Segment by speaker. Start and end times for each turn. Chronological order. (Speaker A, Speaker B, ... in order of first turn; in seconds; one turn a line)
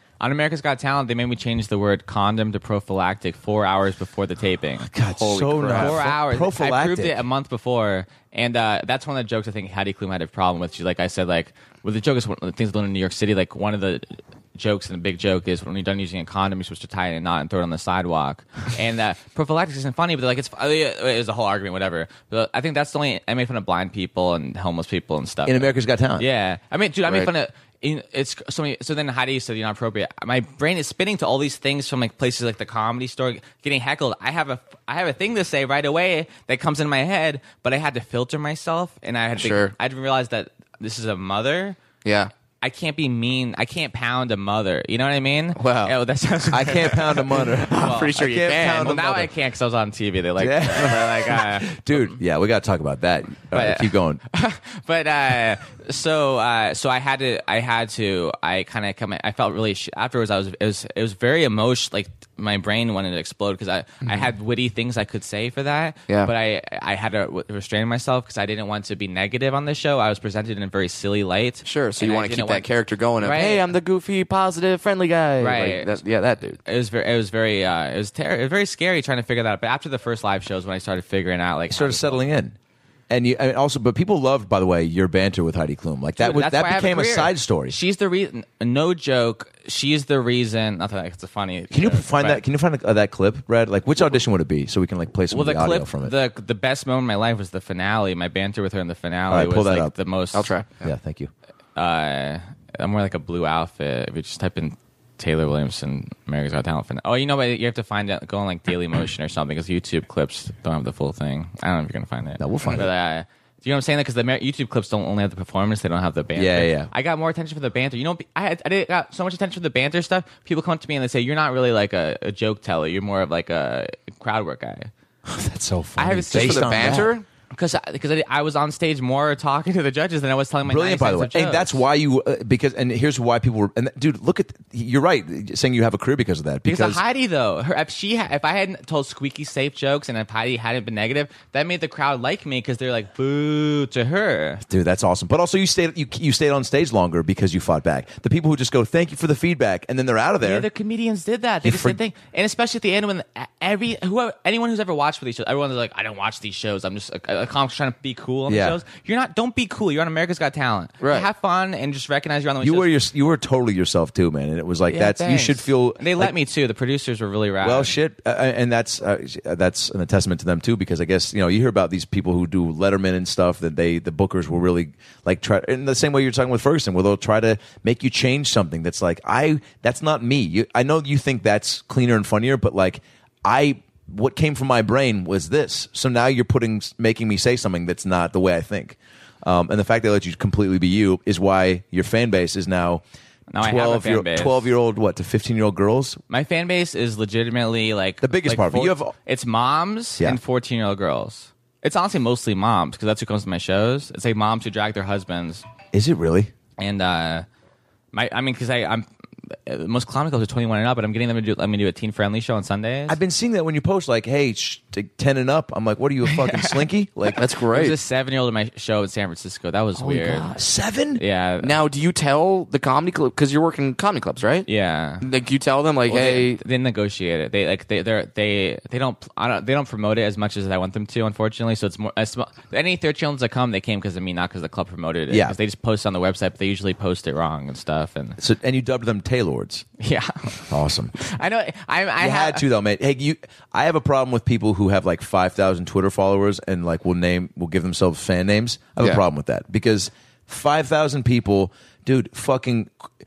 Speaker A: 0.2-4.9
Speaker B: 4.8-7.2
Speaker C: 5.1-6.0
Speaker A: 5.7-41.8
Speaker B: 25.4-26.2
Speaker C: 39.4-39.7
Speaker C: 42.0-42.3
Speaker A: 42.6-48.1
Speaker C: 45.6-46.0
Speaker B: 46.5-49.3
Speaker C: 47.4-49.0
Speaker A: 48.8-52.1
Speaker B: 50.4-54.2
Speaker A: 53.5-72.7
Speaker C: 71.6-76.6
Speaker A: 73.2-73.7
Speaker A: 75.4-76.0
Speaker A: 76.6-82.2
Speaker B: 81.7-82.5
Speaker B: 83.1-87.8
Speaker A: 86.2-92.4
Speaker B: 91.7-96.1
Speaker A: 95.3-100.5
Speaker B: 99.3-99.9
Speaker C: 100.3-100.8
Speaker B: 100.8-101.3
Speaker A: 101.8-124.9
Speaker B: 112.4-112.9
Speaker B: 116.3-116.9
Speaker B: 125.2-127.1
Speaker A: 126.0-131.8
Speaker C: 126.3-127.2
Speaker B: 130.6-137.0
Speaker A: 136.6-144.6
Speaker B: 144.7-150.7
Speaker A: 150.4-162.9
Speaker B: 151.6-152.0
Speaker B: 158.5-158.8
Speaker C: 161.0-161.3
Speaker B: 162.6-166.3
Speaker A: 164.9-167.9
Speaker B: 167.6-193.0
Speaker A: 193.5-194.7
Speaker B: 193.6-196.2
Speaker A: 196.3-205.6
Speaker B: 198.2-199.1
Speaker B: 205.9-206.5
Speaker A: 206.8-207.4
Speaker A: 208.1-213.2
Speaker B: 213.1-217.4
Speaker A: 216.2-220.4
Speaker C: 217.4-217.9
Speaker C: 220.0-220.6
Speaker B: 220.6-221.2
Speaker A: 221.2-221.8
Speaker C: 221.6-224.7
Speaker A: 224.7-225.2
Speaker C: 225.2-226.6
Speaker A: 226.1-238.4
Speaker B: 235.3-235.6
Speaker B: 238.4-239.8
Speaker A: 240.0-242.7
Speaker B: 240.7-241.2
Speaker B: 242.2-252.9